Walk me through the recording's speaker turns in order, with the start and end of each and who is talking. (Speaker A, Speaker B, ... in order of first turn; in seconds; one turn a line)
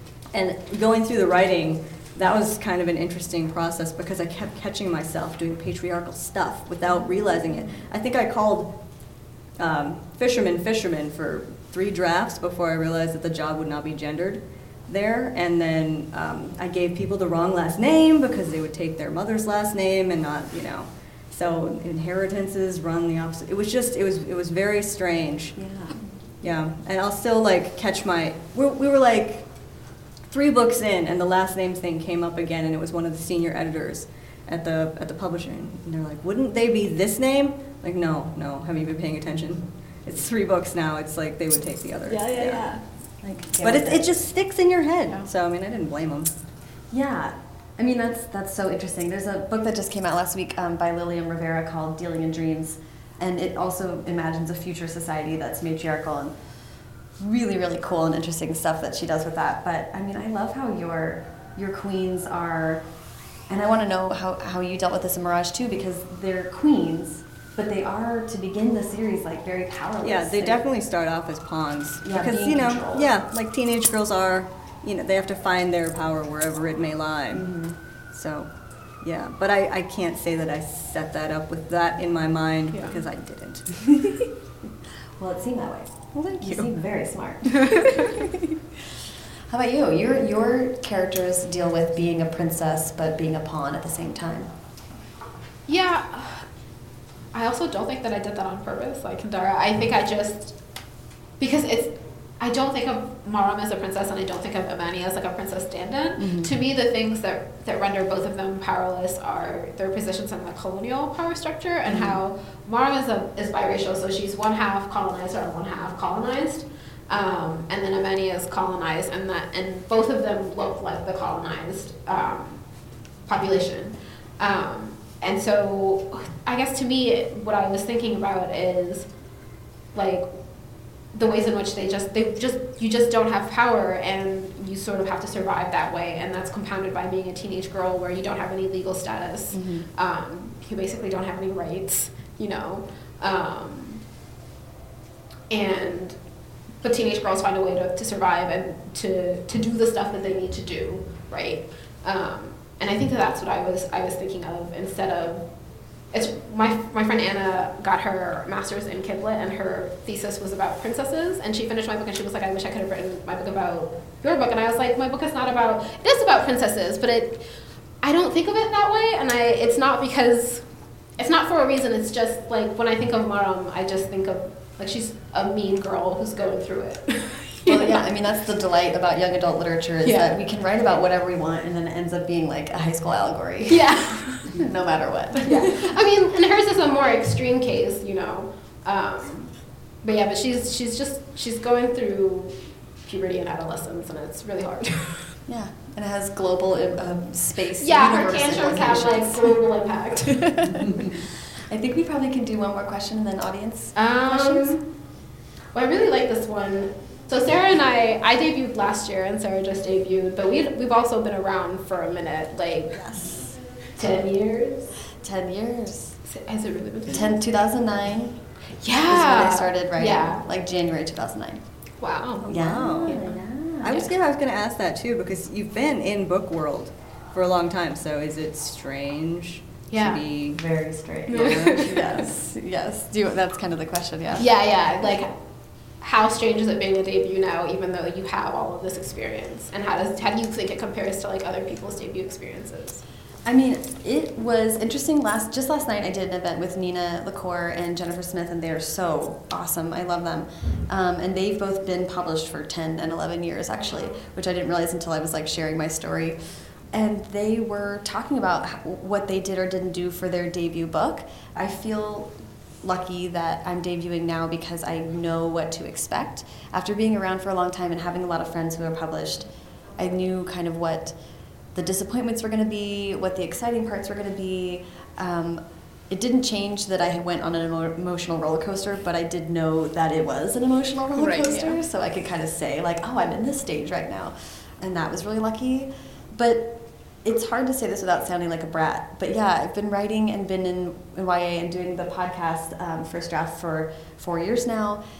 Speaker A: 0.3-8.7
Speaker A: 9.6-25.6
Speaker B: 25.6-26.1
Speaker A: 26.4-29.4
Speaker A: 30.3-42.7
Speaker B: 42.1-44.1
Speaker A: 43.6-46.3
Speaker B: 46.9-56.4
Speaker B: 57.2-62.8
Speaker B: 63.5-70.6
Speaker A: 70.0-77.5
Speaker B: 72.0-73.1
Speaker B: 77.3-77.8
Speaker A: 78.1-78.5
Speaker A: 79.0-84.0
Speaker B: 85.2-88.3
Speaker A: 86.1-86.7
Speaker B: 89.5-94.5
Speaker C: 95.7-96.5
Speaker C: 97.3-100.6
Speaker C: 101.4-122.6
Speaker B: 106.2-106.5
Speaker B: 111.9-112.2
Speaker C: 123.3-129.1
Speaker C: 129.9-130.3
Speaker C: 131.1-144.0
Speaker B: 139.5-139.9
Speaker C: 145.5-146.2
Speaker C: 146.8-155.4
Speaker C: 156.1-167.4
Speaker C: 168.0-170.7
Speaker C: 171.2-178.0
Speaker B: 177.7-185.9
Speaker C: 180.0-180.3
Speaker C: 183.7-184.5
Speaker C: 185.4-189.4
Speaker C: 190.0-195.3
Speaker B: 195.5-199.6
Speaker C: 197.8-200.9
Speaker B: 200.8-204.8
Speaker C: 204.0-204.9
Speaker C: 205.7-213.0
Speaker B: 212.9-213.5
Speaker C: 214.0-214.9
Speaker B: 215.2-216.2
Speaker C: 216.2-217.4
Speaker B: 217.1-218.4
Speaker C: 218.8-220.4
Speaker B: 219.0-221.6
Speaker C: 222.0-222.5
Speaker A: 222.4-223.2
Speaker B: 222.5-224.1
Speaker C: 223.1-223.3
Speaker A: 223.8-230.6
Speaker C: 229.9-230.2
Speaker B: 230.5-234.5
Speaker C: 231.3-231.9
Speaker C: 234.4-235.3
Speaker C: 236.0-243.0
Speaker B: 243.4-256.4
Speaker B: 256.9-271.2
Speaker B: 271.7-295.0
Speaker C: 281.2-281.8